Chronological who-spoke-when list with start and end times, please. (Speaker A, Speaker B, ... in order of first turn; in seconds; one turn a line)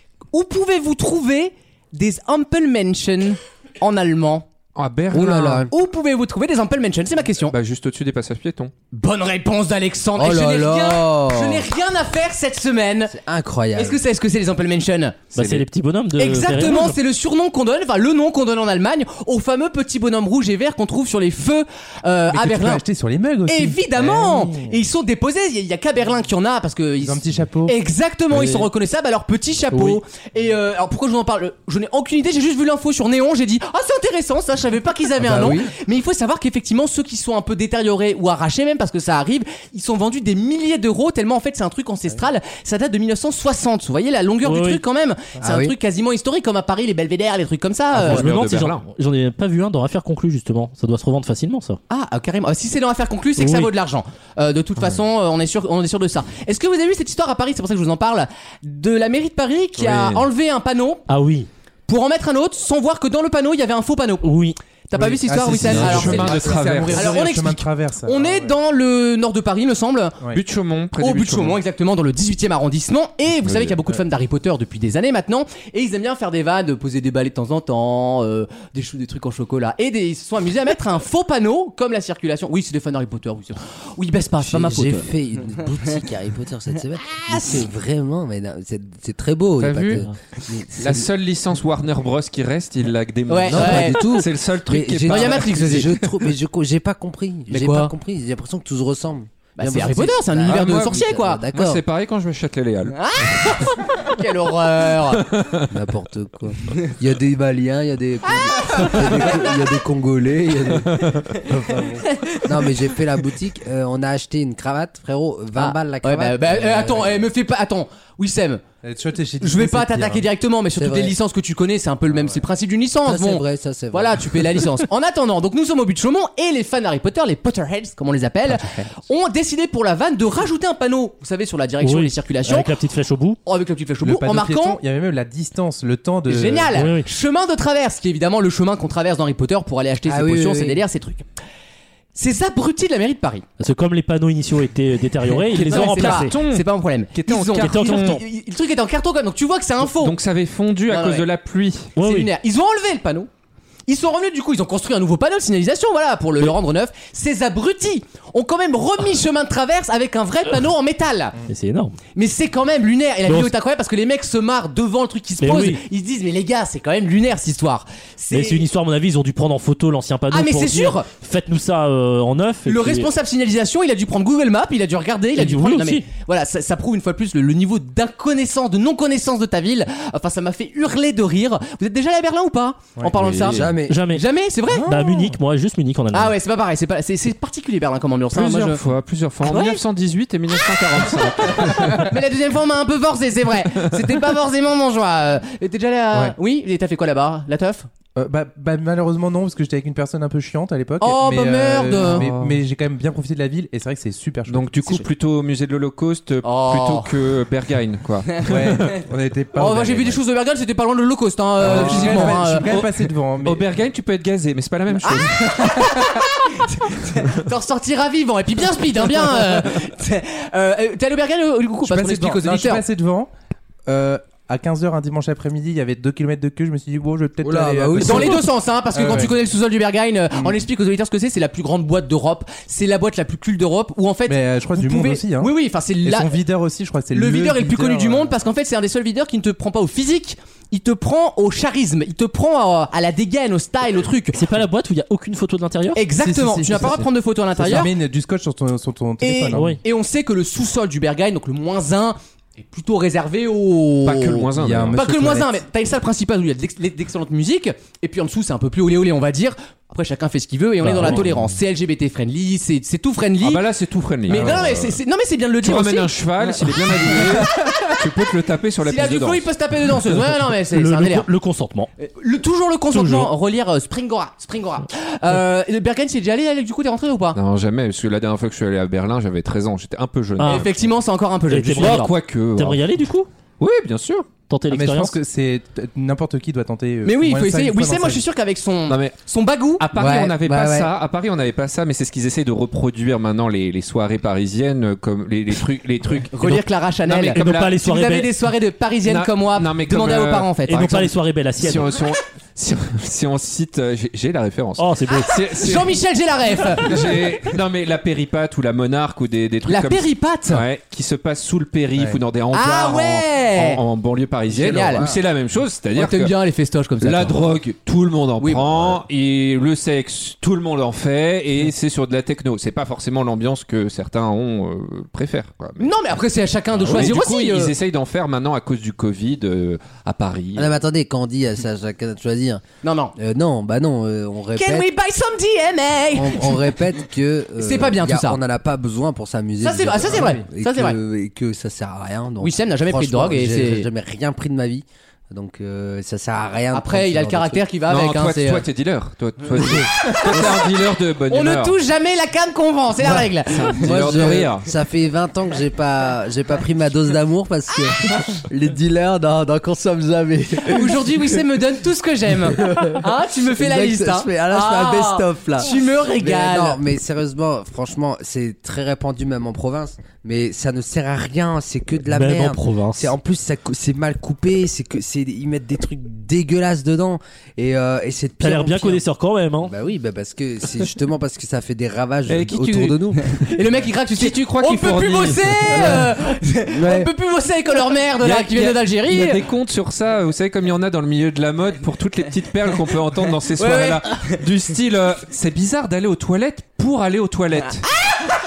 Speaker A: 0.3-4.5
Speaker B: 4.8-5.7
Speaker C: 5.1-5.7
Speaker A: 5.7-7.5
Speaker B: 7.5-8.7
Speaker A: 8.9-13.2
Speaker C: 10.2-11.7
Speaker C: 13.1-14.0
Speaker A: 13.8-15.6
Speaker D: 15.3-17.0
Speaker A: 16.2-22.8
Speaker E: 22.3-24.8
Speaker A: 23.5-48.3
Speaker E: 27.0-27.8
Speaker D: 28.3-28.7
Speaker C: 35.2-35.7
Speaker D: 44.4-44.8
Speaker C: 45.4-45.8
Speaker B: 48.0-48.9
Speaker D: 48.0-51.8
Speaker A: 51.9-61.1
Speaker D: 53.4-53.7
Speaker B: 59.8-60.2
Speaker D: 61.1-61.5
Speaker A: 61.9-64.4
Speaker D: 64.2-64.6
Speaker A: 64.9-70.2
Speaker E: 65.0-68.5
Speaker B: 65.3-67.2
Speaker B: 70.3-71.6
Speaker A: 71.0-85.1
Speaker B: 73.5-73.8
Speaker C: 84.4-91.1
Speaker B: 89.6-90.0
Speaker B: 90.8-95.9
Speaker A: 93.3-94.2
Speaker C: 93.5-101.8
Speaker A: 95.1-96.0
Speaker A: 97.5-97.9
Speaker A: 99.6-101.4
Speaker B: 100.5-103.8
Speaker A: 102.9-105.2
Speaker B: 105.1-105.7
Speaker C: 105.7-117.2
Speaker A: 108.6-109.5
Speaker B: 110.8-111.3
Speaker A: 111.7-112.5
Speaker A: 115.6-118.6
Speaker E: 118.8-120.3
Speaker A: 119.4-132.8
Speaker C: 120.8-121.2
Speaker C: 123.0-124.6
Speaker C: 128.4-129.0
Speaker D: 131.8-133.4
Speaker A: 133.5-134.8
Speaker E: 134.0-136.8
Speaker A: 136.3-141.3
Speaker D: 136.7-137.1
Speaker C: 140.1-140.8
Speaker A: 142.2-143.4
Speaker D: 143.6-146.4
Speaker B: 145.4-148.2
Speaker A: 145.6-150.1
Speaker D: 147.6-148.2
Speaker B: 149.9-151.9
Speaker A: 150.9-151.2
Speaker D: 152.0-152.3
Speaker A: 152.0-153.3
Speaker A: 153.9-161.4
Speaker D: 161.5-162.0
Speaker A: 162.2-168.6
Speaker D: 163.2-163.5
Speaker D: 165.4-165.8
Speaker D: 168.3-173.1
Speaker A: 170.3-171.1
Speaker A: 172.7-184.9
Speaker D: 175.3-176.1
Speaker B: 183.2-183.6
Speaker C: 183.4-184.0
Speaker D: 183.9-184.3
Speaker E: 184.7-185.3
Speaker D: 184.8-186.3
Speaker A: 186.1-188.8
Speaker B: 188.3-192.1
Speaker A: 189.5-189.8
Speaker A: 191.4-197.9
Speaker B: 193.7-194.0
Speaker E: 198.2-205.0
Speaker A: 201.0-202.3
Speaker B: 201.9-202.5
Speaker B: 204.5-208.8
Speaker A: 206.4-207.1
Speaker E: 208.5-210.2
Speaker A: 209.6-212.7
Speaker E: 211.6-213.7
Speaker B: 211.6-215.9
Speaker A: 215.0-222.8
Speaker E: 221.8-223.3
Speaker E: 223.9-228.4
Speaker C: 227.4-228.4
Speaker A: 228.0-236.3
Speaker E: 228.9-229.4
Speaker E: 234.3-235.5
Speaker E: 236.0-238.3
Speaker A: 237.1-244.4
Speaker D: 244.3-246.1
Speaker A: 245.9-247.9
Speaker E: 246.1-249.8
Speaker A: 249.2-263.6
Speaker D: 249.5-249.8
Speaker B: 254.1-255.0
Speaker E: 254.6-255.5
Speaker C: 254.6-255.0
Speaker E: 260.9-261.2
Speaker B: 263.4-265.0
Speaker A: 264.3-268.0
Speaker B: 265.6-269.5
Speaker A: 268.8-271.3
Speaker D: 270.5-271.9
Speaker A: 272.0-277.4
Speaker D: 272.9-273.3
Speaker B: 277.4-280.9
Speaker D: 280.4-280.7
Speaker A: 280.4-282.1
Speaker D: 281.5-283.3
Speaker B: 281.8-282.9
Speaker B: 283.6-284.3
Speaker D: 284.5-285.2
Speaker E: 284.7-288.2
Speaker A: 287.0-289.8
Speaker B: 288.9-289.2
Speaker B: 289.8-297.8
Speaker C: 289.9-290.9
Speaker A: 296.3-301.0
Speaker D: 297.3-298.3
Speaker B: 299.1-306.0
Speaker D: 300.7-301.9
Speaker D: 304.8-305.3
Speaker A: 305.1-307.1
Speaker B: 306.6-316.4
Speaker A: 309.7-310.6
Speaker A: 312.5-313.8
Speaker C: 314.5-315.2
Speaker A: 314.6-315.1
Speaker A: 315.9-317.4
Speaker B: 317.0-325.9
Speaker A: 318.4-319.0
Speaker A: 325.8-327.7
Speaker B: 326.7-330.7
Speaker C: 330.6-332.6
Speaker A: 332.8-333.1
Speaker C: 333.1-334.9
Speaker A: 334.5-336.8
Speaker C: 336.1-347.6
Speaker A: 337.6-338.4
Speaker A: 339.6-341.0
Speaker E: 340.0-340.4
Speaker A: 342.4-343.9
Speaker A: 346.7-348.7
Speaker B: 347.9-351.8
Speaker C: 349.6-350.5
Speaker A: 350.0-350.6
Speaker A: 351.3-354.3
Speaker B: 353.4-354.7
Speaker C: 353.8-361.3
Speaker A: 360.7-366.8
Speaker C: 362.5-379.0
Speaker D: 372.1-373.1
Speaker D: 378.4-379.7
Speaker C: 379.6-383.3
Speaker B: 382.3-383.5
Speaker A: 383.3-389.4
Speaker B: 384.1-386.0
Speaker C: 386.7-387.1
Speaker B: 388.2-397.9
Speaker A: 393.6-394.4